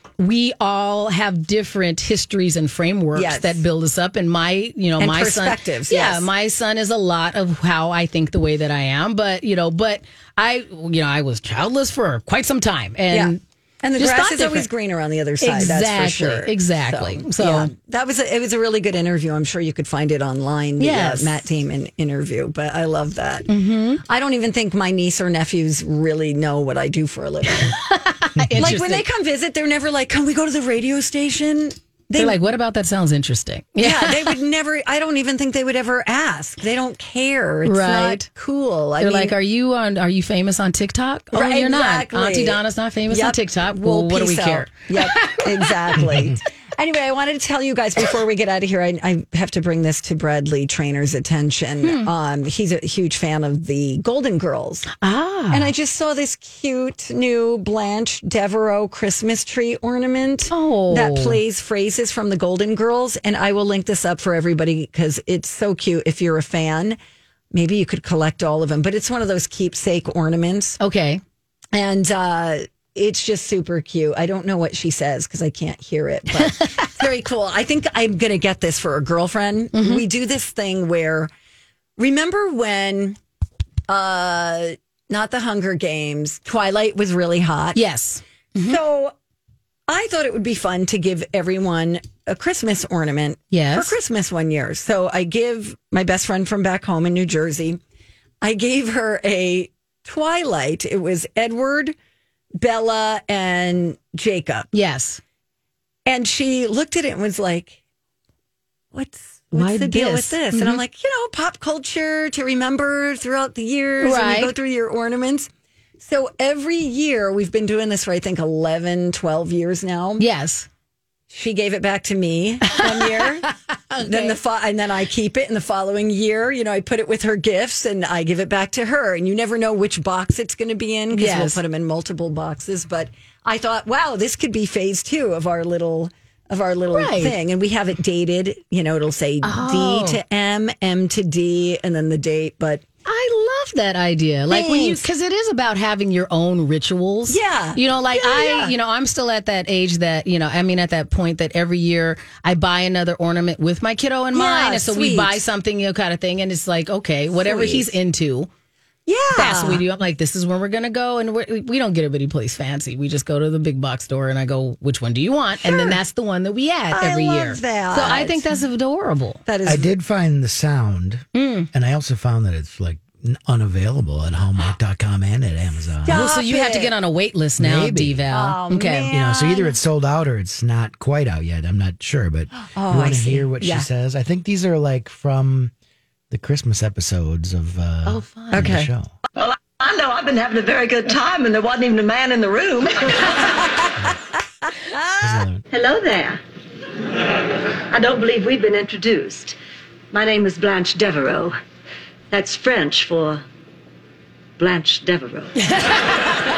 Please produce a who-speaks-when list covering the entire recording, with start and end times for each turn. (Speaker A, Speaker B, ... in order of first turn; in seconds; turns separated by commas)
Speaker A: 0.2-13.4, Speaker B: 3.1-3.6, Speaker B: 5.0-6.3, Speaker B: 13.1-23.5, Speaker A: 14.0-14.7, Speaker A: 15.4-17.7, Speaker A: 20.8-21.4, Speaker A: 23.5-24.0, Speaker B: 24.1-27.9, Speaker A: 27.6-29.1, Speaker B: 28.6-32.4, Speaker A: 32.2-34.3, Speaker B: 33.8-39.4, Speaker A: 37.6-38.3, Speaker A: 39.0-46.0, Speaker B: 41.3-54.9, Speaker A: 51.8-52.1, Speaker A: 55.0-55.7, Speaker B: 55.5-67.0, Speaker A: 60.5-61.4, Speaker B: 67.5-70.8, Speaker A: 70.8-71.2, Speaker B: 71.7-81.3, Speaker A: 76.4-76.8, Speaker A: 79.7-80.0, Speaker B: 82.0-83.2, Speaker B: 83.9-87.8, Speaker A: 87.8-88.8, Speaker B: 88.6-89.1, Speaker B: 89.9-97.8, Speaker A: 93.5-94.0, Speaker B: 98.4-102.0, Speaker B: 102.6-104.7, Speaker A: 104.7-105.2, Speaker B: 106.1-107.8, Speaker B: 108.9-115.5, Speaker A: 109.5-110.8, Speaker A: 114.0-114.5, Speaker B: 116.0-120.3, Speaker A: 120.2-120.7, Speaker B: 121.3-123.5, Speaker A: 122.8-124.4, Speaker B: 124.0-142.8, Speaker A: 131.1-131.6, Speaker A: 136.9-137.3, Speaker A: 139.4-140.2, Speaker A: 143.1-158.5, Speaker B: 144.5-145.1, Speaker B: 147.3-148.7, Speaker B: 154.3-155.4, Speaker B: 157.3-157.9, Speaker B: 159.1-159.8, Speaker A: 159.3-169.4, Speaker B: 165.6-166.0, Speaker B: 166.9-168.5, Speaker B: 169.5-169.9, Speaker C: 169.6-176.4, Speaker A: 171.3-171.7, Speaker B: 176.0-176.9, Speaker A: 176.1-179.1, Speaker C: 177.6-178.2, Speaker B: 178.3-179.8, Speaker C: 179.1-185.7, Speaker B: 182.8-183.9, Speaker C: 186.3-189.1, Speaker A: 188.1-188.7, Speaker B: 188.5-188.9, Speaker D: 189.4-193.5, Speaker B: 194.9-195.4, Speaker C: 195.2-195.6, Speaker D: 195.7-196.4, Speaker D: 197.9-199.6, Speaker D: 200.1-201.6, Speaker D: 202.3-203.4, Speaker D: 204.6-205.5, Speaker A: 205.6-206.3